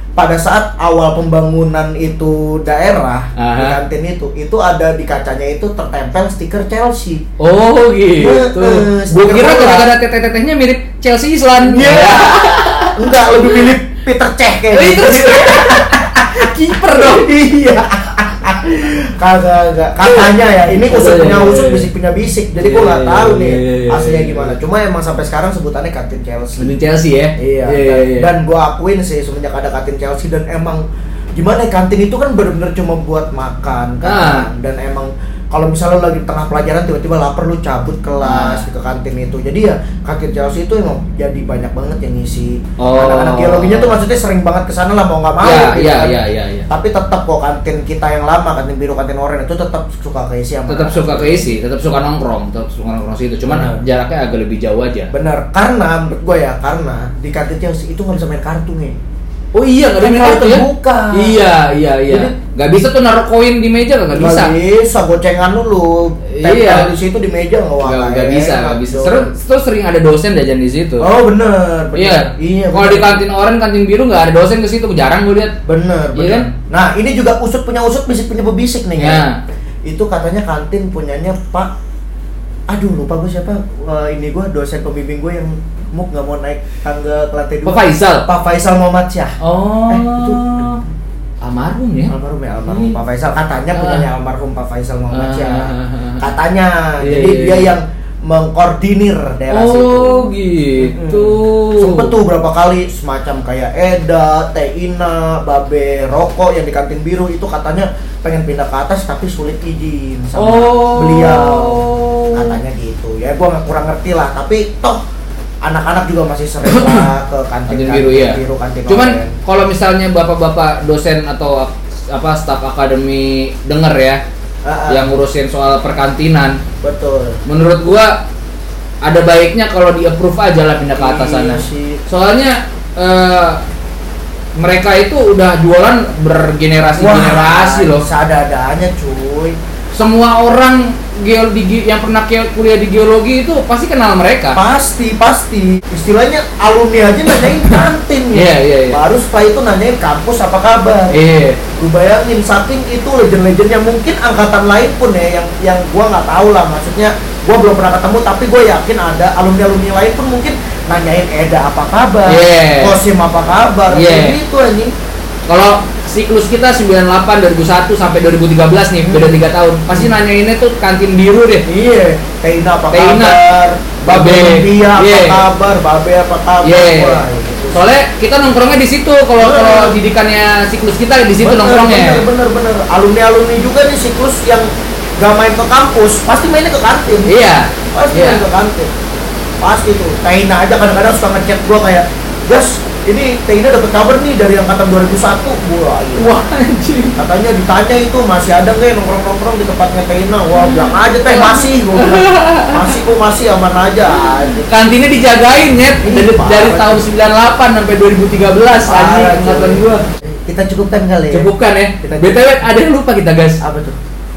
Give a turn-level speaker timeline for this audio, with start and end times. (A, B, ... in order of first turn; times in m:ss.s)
0:00.2-0:07.2 A
0:03.4-0:03.8 B
0:07.4-0:13.7 B
0:08.1-0:09.9 A
0:11.6-0:26.7 A
0:14.7-0:17.3 B
0:20.7-0:21.9 B
0:22.6-0:24.6 B
0:26.6-0:28.3 B
0:27.4-0:30.8 A
0:31.4-0:46.2 A
0:34.0-0:34.5 B
0:38.2-0:38.6 B
0:42.8-0:44.0 B
0:45.4-0:46.7 B
0:46.7-0:51.5 A
0:50.7-0:55.1 B
0:53.4-0:53.8 A
0:55.1-0:59.0 A
0:59.5-1:04.5 B
1:00.0-1:01.5 A
1:02.1-1:02.3 A
1:04.1-1:09.3 A
1:06.3-1:06.9 B
1:07.8-1:11.1 B
1:11.0-1:13.2 A
1:11.9-1:15.6 B
1:15.6-1:19.2 A
1:16.1-1:16.5 B
1:19.0-1:19.4 B
1:19.8-1:21.7 A
1:22.7-1:30.8 A
1:27.6-1:28.3 B
1:29.4-1:30.8 B
1:31.4-1:32.1 B
1:32.1-1:55.0 A
1:32.6-1:33.0 B
1:33.7-1:34.1 B
1:35.1-1:36.2 B
1:37.0-1:37.7 B
1:39.5-1:42.1 B
1:50.3-1:52.6 B
1:55.6-1:59.4 A
1:56.6-1:57.1 B
1:57.7-2:04.2 B
2:04.6-2:05.1 A
2:04.9-2:06.6 B
2:06.8-2:07.4 A
2:07.4-2:08.2 B
2:09.0-2:13.6 B
2:10.9-2:12.0 A
2:14.6-2:18.0 B
2:17.0-2:19.6 A
2:19.9-2:24.6 B
2:24.5-2:44.9 A
2:27.6-2:29.0 B
2:31.1-2:31.6 B
2:42.3-2:43.0 B
2:43.9-2:44.4 B
2:45.5-2:51.6 B
2:49.0-2:50.1 A
2:51.6-2:57.8 A
2:52.9-2:53.4 B
2:54.0-2:55.4 B
2:56.6-3:02.3 B
2:59.4-3:00.0 A
3:01.4-3:04.7 A
3:05.2-3:07.4 A
3:07.2-3:08.4 B
3:07.9-3:08.9 A
3:09.6-3:16.4 A
3:16.2-3:17.2 B
3:17.2-3:24.7 A
3:20.5-3:22.9 B
3:24.5-3:30.0 B
3:26.0-3:27.0 A
3:28.8-3:31.5 A
3:31.3-3:33.6 B
3:32.0-3:32.5 A
3:33.6-3:34.0 A